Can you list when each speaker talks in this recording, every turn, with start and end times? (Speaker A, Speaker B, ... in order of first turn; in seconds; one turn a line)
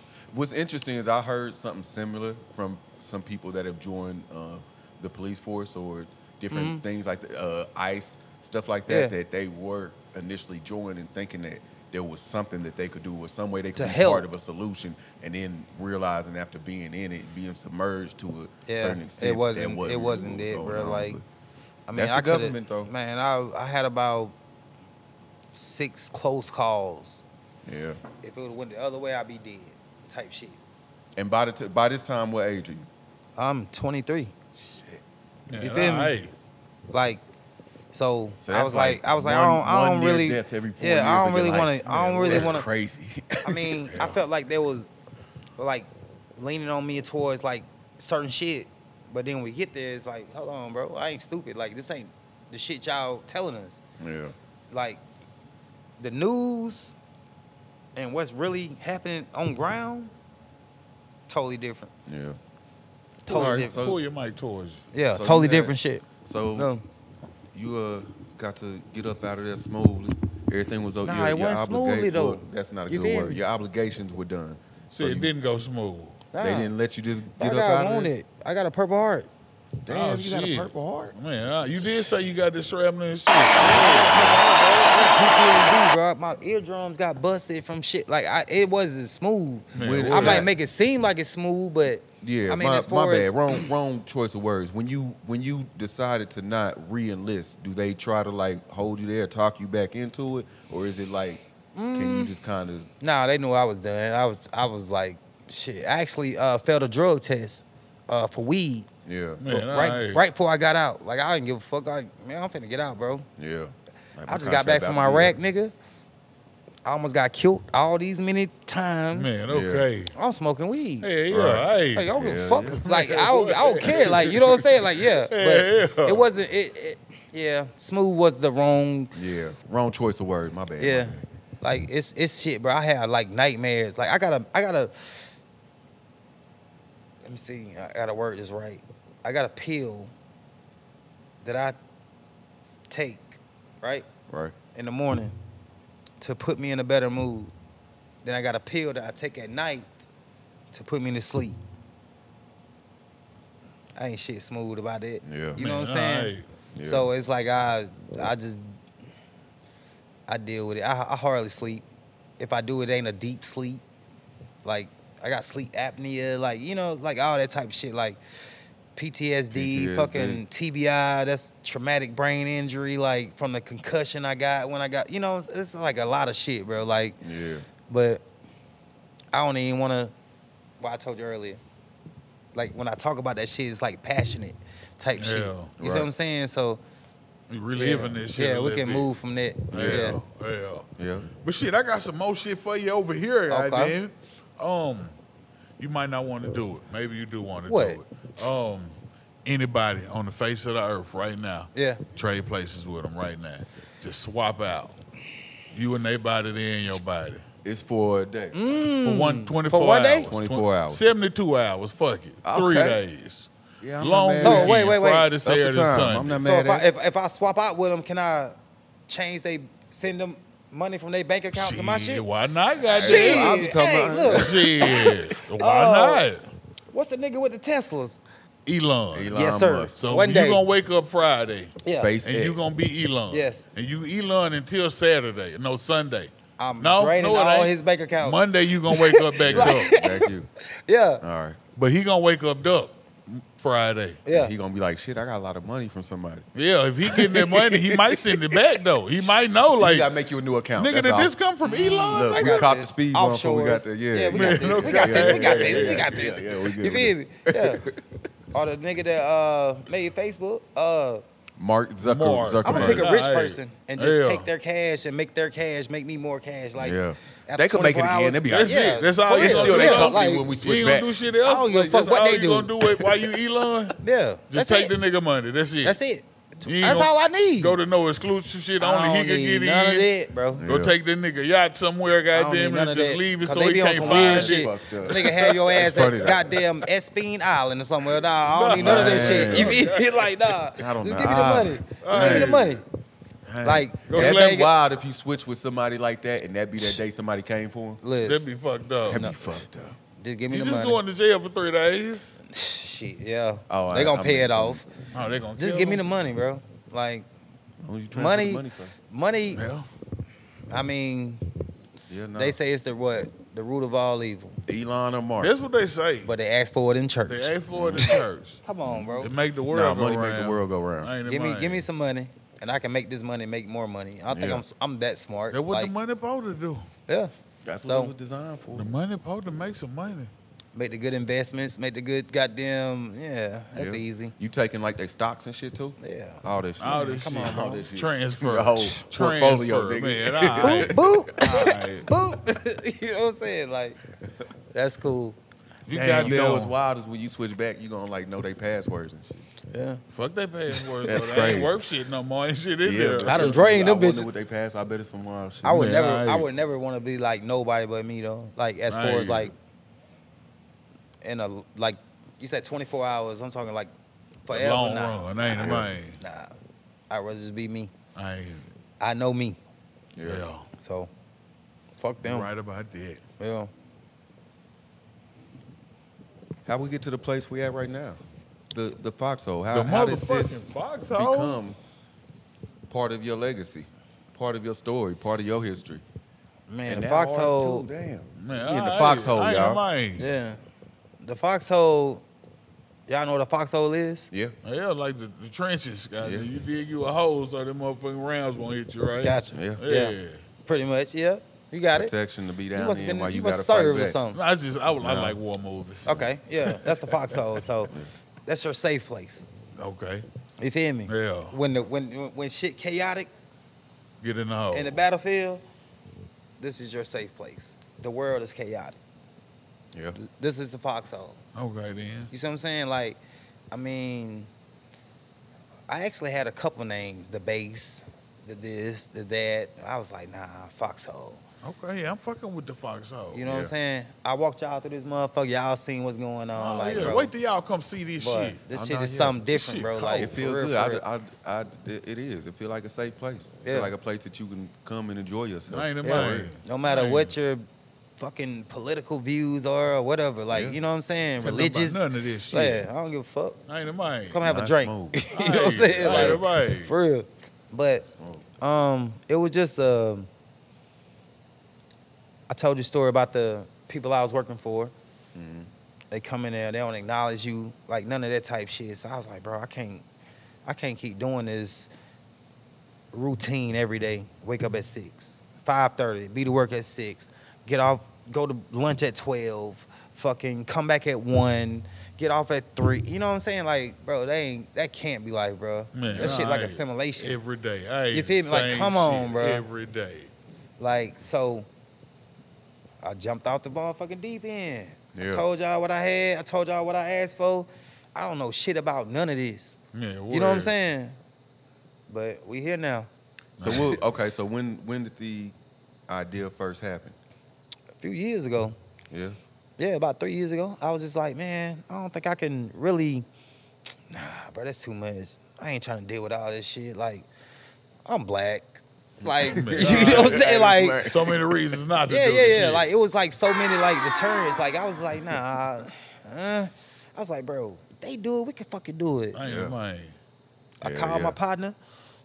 Speaker A: 0.3-21.2
Speaker B: 6.5-6.8
Speaker B: 8.9-9.2
Speaker B: 13.8-14.3
Speaker B: 18.7-21.2
Speaker B: 21.9-24.4
Speaker A: 21.9-22.9
Speaker B: 25.5-27.2
Speaker A: 27.7-28.0
Speaker B: 28.2-30.6
Speaker A: 31.2-32.9
Speaker B: 33.4-34.3
Speaker A: 34.7-35.0
Speaker C: 35.5-36.3
Speaker B: 35.6-36.2
Speaker B: 36.9-37.2
Speaker B: 37.9-42.7
Speaker A: 38.4-43.9
Speaker C: 42.2-42.6
Speaker B: 43.4-44.9
Speaker C: 43.9-44.2
Speaker B: 45.6-53.8
Speaker A: 54.0-54.4
Speaker B: 54.7-55.0
Speaker B: 56.0-57.0
Speaker B: 58.0-60.1
Speaker B: 61.3-61.9
Speaker A: 62.1-62.4
Speaker B: 63.3-63.9
Speaker A: 63.3-64.0
Speaker C: 63.3-64.8
Speaker B: 64.9-66.9
Speaker A: 65.1-66.7
Speaker A: 67.5-75.3
Speaker B: 71.0-73.4
Speaker C: 74.9-76.2
Speaker B: 76.3-76.7
Speaker A: 76.4-78.1
Speaker B: 77.4-79.3
Speaker A: 79.9-81.2
Speaker C: 79.9-84.4
Speaker B: 83.6-93.7
Speaker C: 89.7-90.5
Speaker A: 89.8-90.5
Speaker A: 92.2-102.9
Speaker B: 101.8-102.3
Speaker B: 103.0-108.9
Speaker A: 109.1-109.4
Speaker C: 109.4-110.2
Speaker B: 109.5-113.3
Speaker A: 113.4-115.4
Speaker B: 114.3-115.7
Speaker B: 116.8-119.3
Speaker C: 119.1-120.1
Speaker A: 119.5-119.9
Speaker B: 120.1-121.1
Speaker C: 121.0-124.7
Speaker A: 121.3-122.8
Speaker B: 121.9-129.1
Speaker C: 125.2-126.3
Speaker A: 129.1-131.2
Speaker B: 130.8-135.3
Speaker B: 137.2-140.1
Speaker B: 141.4-141.8
Speaker B: 142.9-144.1
Speaker A: 144.3-144.6
Speaker B: 144.7-145.4
Speaker B: 146.2-147.5
Speaker B: 148.2-150.1
Speaker B: 150.7-151.6
Speaker B: 154.0-158.8
Speaker A: 155.2-155.6
Speaker C: 155.6-156.5
Speaker A: 156.7-157.1
Speaker B: 160.3-161.8
Speaker B: 162.4-163.8
Speaker B: 164.6-168.2
Speaker B: 168.9-177.2
Speaker A: 169.5-170.4
Speaker A: 177.2-177.7
Speaker B: 177.9-178.2
Speaker B: 179.3-180.1
Speaker B: 180.8-181.6
Speaker B: 182.5-186.8
Speaker C: 185.2-185.7
Speaker A: 185.8-186.1
Speaker C: 187.5-189.1
Speaker B: 187.8-190.2
Speaker A: 189.7-190.2
Speaker C: 189.7-190.9
Speaker A: 191.0-191.3
Speaker C: 191.4-195.2
Speaker B: 193.5-194.0
Speaker C: 195.8-205.0
Speaker B: 197.7-198.0
Speaker B: 201.8-202.0
Speaker C: 205.7-207.4
Speaker A: 207.6-208.6
Speaker B: 208.5-210.3
Speaker C: 209.0-216.5
Speaker A: 210.3-211.0
Speaker A: 212.4-213.0
Speaker A: 213.8-214.8
Speaker B: 214.4-215.3
Speaker A: 215.4-216.8
Speaker B: 216.4-222.2
Speaker C: 221.5-223.7
Speaker B: 222.9-226.3
Speaker A: 222.9-224.6
Speaker C: 224.3-226.5
Speaker B: 226.9-228.2
Speaker C: 228.7-229.4
Speaker A: 229.1-230.0
Speaker B: 229.3-230.6
Speaker C: 230.0-239.9
Speaker B: 231.8-232.1
Speaker A: 231.9-232.6
Speaker B: 233.3-233.7
Speaker B: 236.6-241.2
Speaker A: 239.4-240.5
Speaker A: 241.2-241.6
Speaker C: 241.8-244.2
Speaker B: 244.2-244.5
Speaker A: 244.3-246.5
Speaker C: 246.6-250.1
Speaker A: 247.1-248.5
Speaker A: 249.8-251.3
Speaker C: 250.8-252.7
Speaker B: 251.6-257.8
Speaker A: 252.1-258.1
Speaker C: 254.3-256.4
Speaker B: 258.5-261.2
Speaker A: 261.6-263.1
Speaker C: 262.0-264.5
Speaker B: 262.6-270.9
Speaker A: 266.8-271.2
Speaker C: 268.5-276.0
Speaker B: 271.4-273.1
Speaker B: 274.0-274.9
Speaker B: 275.8-277.8
Speaker C: 276.7-280.1
Speaker B: 278.8-280.6
Speaker A: 280.6-280.9
Speaker C: 280.6-286.1
Speaker B: 282.3-292.8
Speaker A: 284.0-286.5
Speaker C: 288.5-290.3
Speaker A: 288.8-289.8
Speaker A: 290.8-292.5
Speaker C: 291.8-292.8
Speaker C: 293.5-294.7
Speaker B: 293.6-294.7
Speaker A: 294.1-298.0
Speaker B: 298.0-298.5
Speaker C: 298.2-299.3
Speaker A: 299.1-300.0
Speaker B: 299.1-299.6
Speaker B: 300.1-301.0
Speaker C: 300.5-302.4
Speaker B: 302.4-304.9
Speaker A: 303.7-304.8
Speaker C: 305.1-306.0
Speaker B: 305.6-307.3
Speaker A: 307.8-308.9
Speaker B: 308.1-309.6
Speaker C: 309.5-309.9
Speaker B: 310.7-311.5
Speaker A: 312.1-312.6
Speaker B: 312.4-314.6
Speaker A: 314.7-315.5
Speaker C: 315.4-316.3
Speaker B: 316.2-319.3
Speaker C: 317.3-318.6
Speaker A: 317.7-318.1
Speaker A: 318.9-319.1
Speaker C: 319.2-321.9
Speaker A: 319.7-321.1
Speaker B: 321.3-325.9
Speaker A: 324.3-324.6
Speaker C: 325.5-326.9
Speaker B: 327.1-327.3
Speaker A: 327.6-328.9
Speaker B: 327.9-328.1
Speaker C: 328.8-330.3
Speaker B: 330.7-334.3
Speaker A: 333.8-341.4
Speaker B: 336.0-337.8
Speaker C: 336.8-342.1
Speaker B: 340.6-344.0
Speaker B: 344.7-345.4
Speaker C: 345.9-346.7
Speaker A: 345.9-349.4
Speaker B: 349.7-350.0
Speaker C: 350.1-353.6
Speaker A: 351.0-351.7
Speaker A: 352.8-355.9
Speaker B: 353.2-354.3
Speaker B: 355.6-359.5
Speaker C: 355.7-356.5
Speaker C: 358.9-359.5
Speaker B: 361.2-363.9
Speaker B: 364.4-366.6
Speaker C: 364.5-366.2
Speaker A: 365.6-365.9
Speaker B: 367.1-367.9
Speaker C: 368.2-368.7
Speaker B: 369.0-369.6
Speaker A: 370.2-370.5
Speaker C: 370.2-370.7
Speaker B: 370.8-371.1
Speaker B: 372.0-372.5
Speaker C: 372.2-373.2
Speaker B: 373.4-373.7
Speaker A: 376.7-378.2
Speaker A: 378.7-381.8
Speaker C: 379.7-381.6
Speaker A: 382.9-386.0
Speaker B: 386.7-387.9
Speaker A: 386.9-389.8
Speaker C: 388.4-390.3
Speaker B: 390.2-390.6
Speaker B: 391.2-392.2
Speaker B: 393.1-394.3
Speaker A: 394.3-394.6
Speaker C: 394.6-400.4
Speaker A: 396.2-396.5
Speaker B: 399.2-402.1
Speaker A: 399.5-399.8
Speaker A: 401.9-404.2
Speaker B: 402.7-404.4
Speaker C: 404.3-406.2
Speaker A: 405.0-405.4
Speaker B: 406.1-407.9
Speaker B: 408.5-409.5
Speaker C: 409.8-410.3
Speaker B: 410.6-413.3
Speaker C: 411.1-411.6
Speaker C: 414.2-415.0
Speaker B: 414.7-415.6
Speaker B: 416.6-419.0
Speaker A: 419.9-420.2
Speaker B: 420.2-421.4
Speaker C: 421.6-422.3
Speaker B: 422.3-423.2
Speaker B: 423.7-424.5
Speaker B: 425.9-431.4
Speaker C: 431.6-433.4
Speaker B: 433.3-437.3
Speaker A: 433.4-433.7
Speaker C: 436.6-438.6
Speaker A: 436.9-437.2
Speaker B: 438.2-441.0
Speaker A: 438.7-439.4
Speaker C: 439.5-440.4
Speaker A: 440.1-446.5
Speaker B: 443.6-443.9
Speaker C: 445.7-447.3
Speaker B: 446.0-447.7
Speaker B: 448.2-453.6
Speaker A: 450.5-450.8
Speaker C: 451.4-452.9
Speaker C: 453.7-454.4
Speaker B: 454.3-458.1
Speaker A: 454.4-456.4
Speaker C: 455.3-456.9
Speaker A: 458.1-458.5
Speaker B: 458.6-460.3
Speaker B: 462.5-464.9
Speaker A: 465.4-465.7
Speaker B: 466.1-470.1
Speaker B: 470.6-471.9
Speaker B: 473.1-487.4
Speaker C: 485.9-490.3
Speaker A: 486.1-486.4
Speaker B: 488.1-489.7
Speaker B: 490.8-491.7
Speaker B: 493.0-499.8
Speaker A: 495.1-495.4
Speaker C: 499.9-500.7
Speaker B: 500.3-501.2
Speaker B: 502.1-503.1
Speaker A: 503.6-505.5
Speaker C: 503.6-504.0
Speaker A: 506.1-507.1
Speaker B: 508.0-508.8
Speaker A: 509.1-509.4
Speaker B: 509.8-513.3
Speaker B: 514.1-517.3
Speaker B: 518.1-521.0
Speaker A: 519.2-521.8
Speaker C: 519.4-520.5
Speaker C: 521.1-522.9
Speaker B: 522.1-529.4
Speaker C: 529.3-530.2
Speaker A: 529.4-529.8
Speaker A: 530.8-531.4
Speaker B: 530.8-531.8